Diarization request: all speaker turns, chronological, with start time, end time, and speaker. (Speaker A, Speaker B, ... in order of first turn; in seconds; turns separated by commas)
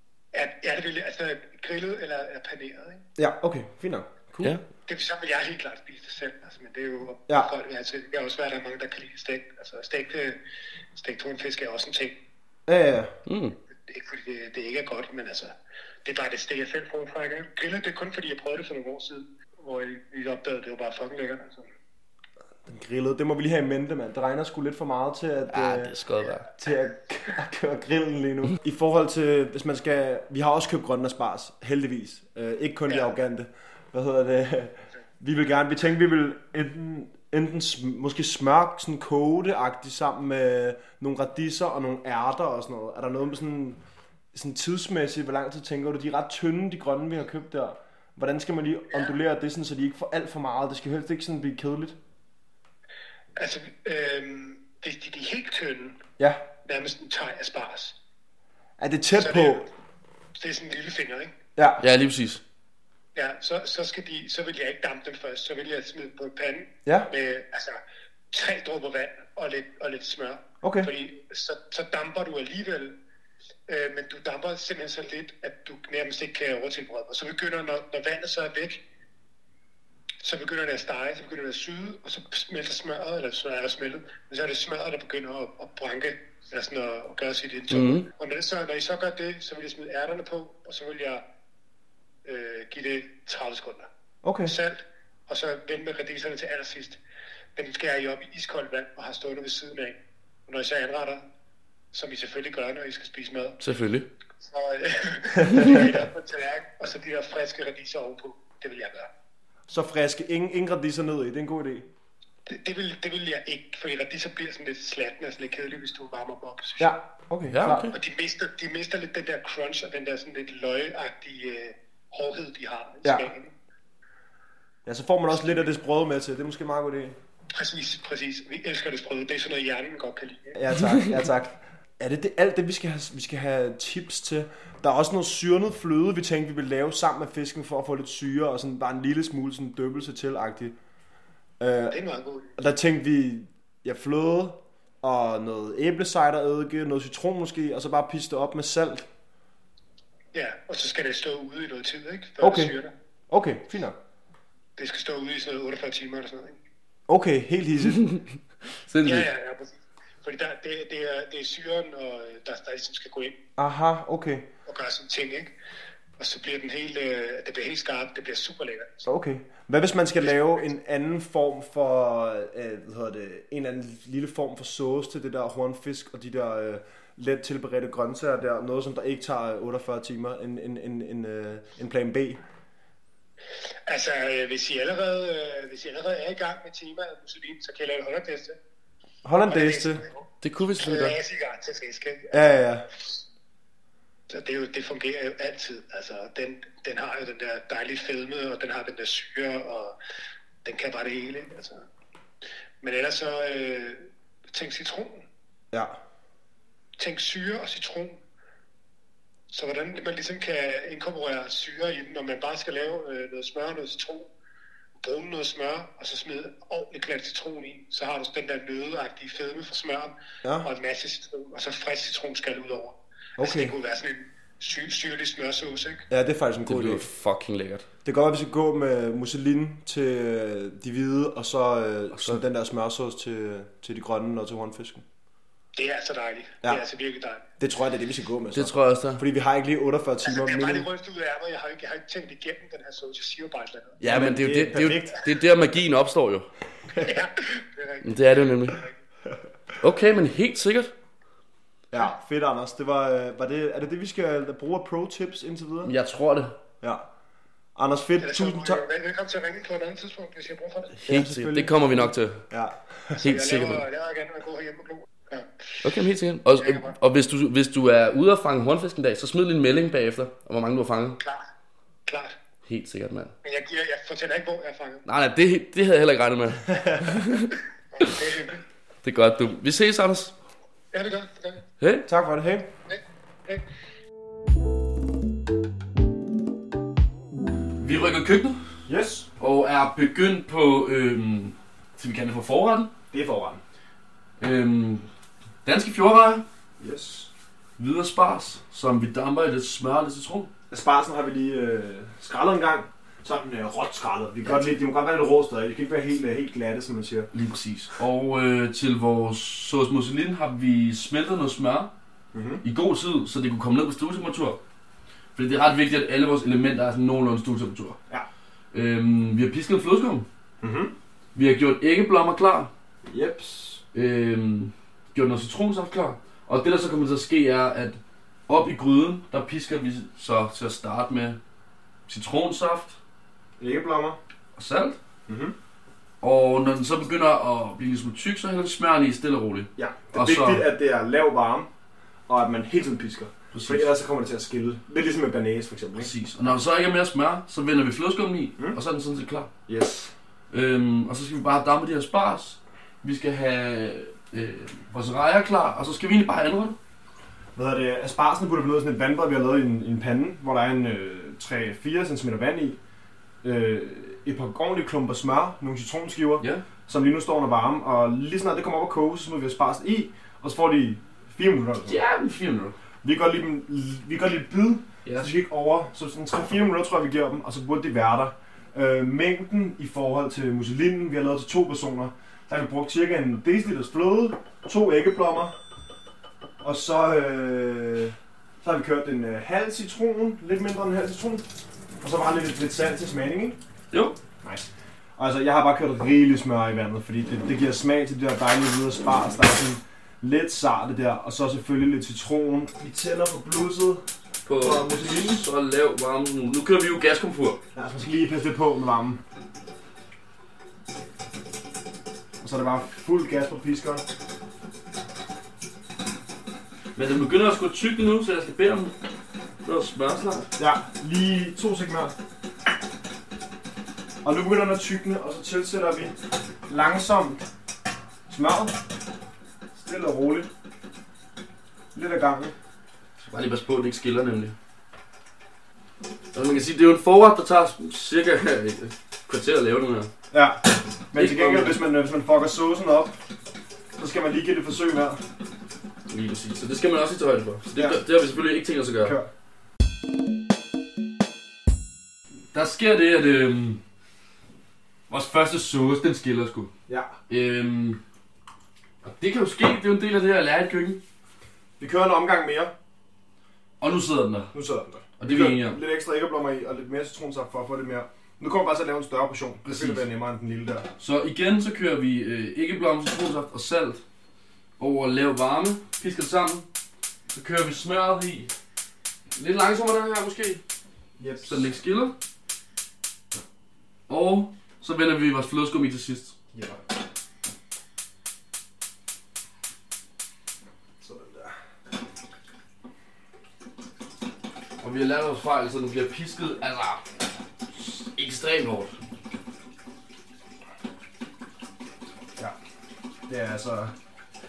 Speaker A: 0.3-3.0, Speaker B: 3.2-4.6, Speaker A: 4.9-10.4, Speaker A: 11.0-12.2, Speaker B: 12.7-13.1, Speaker C: 13.3-13.6, Speaker A: 13.9-21.7, Speaker B: 22.7-25.9, Speaker C: 25.5-26.5, Speaker B: 26.6-43.8, Speaker B: 44.3-52.0, Speaker A: 53.4-56.0, Speaker B: 56.2-56.5, Speaker A: 56.6-58.0, Speaker B: 58.8-59.7, Speaker A: 59.1-59.7, Speaker A: 60.4-61.4, Speaker B: 61.6-61.8, Speaker C: 61.8-62.4, Speaker A: 63.1-67.8, Speaker A: 68.3-73.0, Speaker B: 70.6-70.9, Speaker A: 73.7-78.8, Speaker A: 80.2-91.2, Speaker C: 87.7-88.1, Speaker A: 92.2-93.9, Speaker B: 94.2-94.5, Speaker A: 94.5-97.0, Speaker A: 97.6-101.2, Speaker A: 101.9-103.6, Speaker C: 103.6-104.1, Speaker A: 104.4-109.1, Speaker B: 109.7-111.9, Speaker A: 112.5-117.0, Speaker B: 116.8-117.9, Speaker C: 117.5-118.0, Speaker A: 117.9-123.5, Speaker B: 124.9-127.2, Speaker A: 127.5-130.6, Speaker B: 130.6-140.8, Speaker B: 141.6-142.0, Speaker A: 141.9-142.6, Speaker B: 142.6-149.1, Speaker A: 150.3-152.9, Speaker B: 152.4-152.7, Speaker B: 153.3-154.0, Speaker A: 154.8-156.6, Speaker B: 157.1-158.1, Speaker C: 158.8-159.3, Speaker A: 159.0-163.4, Speaker B: 163.6-164.5, Speaker A: 164.7-165.5, Speaker A: 166.2-169.1, Speaker B: 169.1-182.4, Speaker A: 170.2-170.7, Speaker A: 183.9-188.6, Speaker B: 189.2-190.0, Speaker A: 189.5-190.3, Speaker C: 190.4-191.2, Speaker A: 190.8-192.4, Speaker B: 192.3-192.9, Speaker A: 194.3-199.9, Speaker A: 200.6-201.8, Speaker A: 202.8-205.2, Speaker A: 207.0-208.2, Speaker A: 209.5-214.3, Speaker A: 215.0-226.1, Speaker B: 223.4-223.7, Speaker B: 226.1-227.1, Speaker C: 226.7-227.9, Speaker B: 228.1-235.1, Speaker C: 232.1-232.4, Speaker A: 235.8-237.5, Speaker B: 237.6-240.8, Speaker C: 238.5-239.2, Speaker A: 240.2-244.0, Speaker B: 244.0-245.2, Speaker C: 244.0-246.5, Speaker A: 247.0-248.9, Speaker C: 248.0-248.8, Speaker C: 249.8-250.9, Speaker B: 251.9-255.9, Speaker C: 255.8-256.6, Speaker B: 257.8-258.8, Speaker A: 258.2-261.0, Speaker C: 261.0-262.5, Speaker B: 261.1-263.2, Speaker C: 263.2-263.8, Speaker A: 263.2-265.9, Speaker C: 265.8-271.2, Speaker A: 266.6-266.9, Speaker A: 271.2-271.5, Speaker A: 272.1-272.4, Speaker C: 272.6-273.3, Speaker A: 273.4-275.0, Speaker C: 275.1-278.1, Speaker A: 277.9-278.6, Speaker C: 279.0-280.4, Speaker A: 280.9-281.6, Speaker C: 281.8-282.1, Speaker B: 282.1-282.7, Speaker A: 282.9-283.6, Speaker C: 287.8-288.6, Speaker B: 288.9-289.3, Speaker C: 289.4-292.9, Speaker B: 293.1-293.6, Speaker C: 294.4-295.1, Speaker C: 295.6-296.4, Speaker B: 296.8-297.3, Speaker C: 297.8-300.5, Speaker B: 300.7-307.3, Speaker C: 307.3-311.9, Speaker B: 312.3-312.6, Speaker C: 312.6-314.6, Speaker C: 315.4-318.0, Speaker C: 318.7-320.3, Speaker B: 320.6-320.9, Speaker C: 321.4-322.7, Speaker B: 323.1-323.8, Speaker C: 323.9-331.4, Speaker C: 332.1-333.0, Speaker B: 333.6-334.2, Speaker C: 334.6-335.0, Speaker B: 335.3-335.6, Speaker C: 336.2-340.7, Speaker B: 339.8-341.7, Speaker B: 342.3-346.1, Speaker C: 343.5-343.9, Speaker C: 346.0-349.5, Speaker B: 349.7-350.1, Speaker C: 350.5-356.8, Speaker B: 357.6-362.8, Speaker B: 363.4-372.0, Speaker C: 371.9-372.8, Speaker B: 373.0-385.6, Speaker C: 375.1-375.3, Speaker B: 386.6-391.5, Speaker B: 392.0-393.6, Speaker C: 393.9-394.2, Speaker B: 394.4-404.0, Speaker C: 404.4-407.6, Speaker B: 404.6-405.3, Speaker B: 407.7-409.2, Speaker B: 412.4-414.0, Speaker C: 416.9-419.0, Speaker C: 419.6-420.5, Speaker B: 420.6-422.1, Speaker B: 424.2-427.4, Speaker B: 428.3-428.8, Speaker B: 429.8-430.5, Speaker B: 431.9-432.6, Speaker C: 433.2-434.6, Speaker C: 436.3-440.1, Speaker B: 440.3-443.2, Speaker C: 441.1-441.8, Speaker B: 444.0-445.2, Speaker C: 446.1-449.2, Speaker B: 447.8-448.0, Speaker B: 449.0-449.3, Speaker C: 452.5-453.8, Speaker C: 455.1-456.7, Speaker B: 456.9-457.2, Speaker C: 457.3-458.0, Speaker C: 459.0-461.0, Speaker B: 461.8-462.7, Speaker C: 463.8-464.5, Speaker B: 464.5-470.9, Speaker C: 465.2-465.8, Speaker C: 469.6-470.1, Speaker C: 471.0-474.0, Speaker C: 474.8-476.7, Speaker C: 477.3-478.5, Speaker C: 479.4-480.6, Speaker B: 481.2-481.7, Speaker C: 481.4-482.2, Speaker C: 484.1-486.4, Speaker B: 486.5-486.8, Speaker B: 491.0-491.6, Speaker C: 494.8-497.1, Speaker C: 497.7-498.9, Speaker B: 503.3-503.9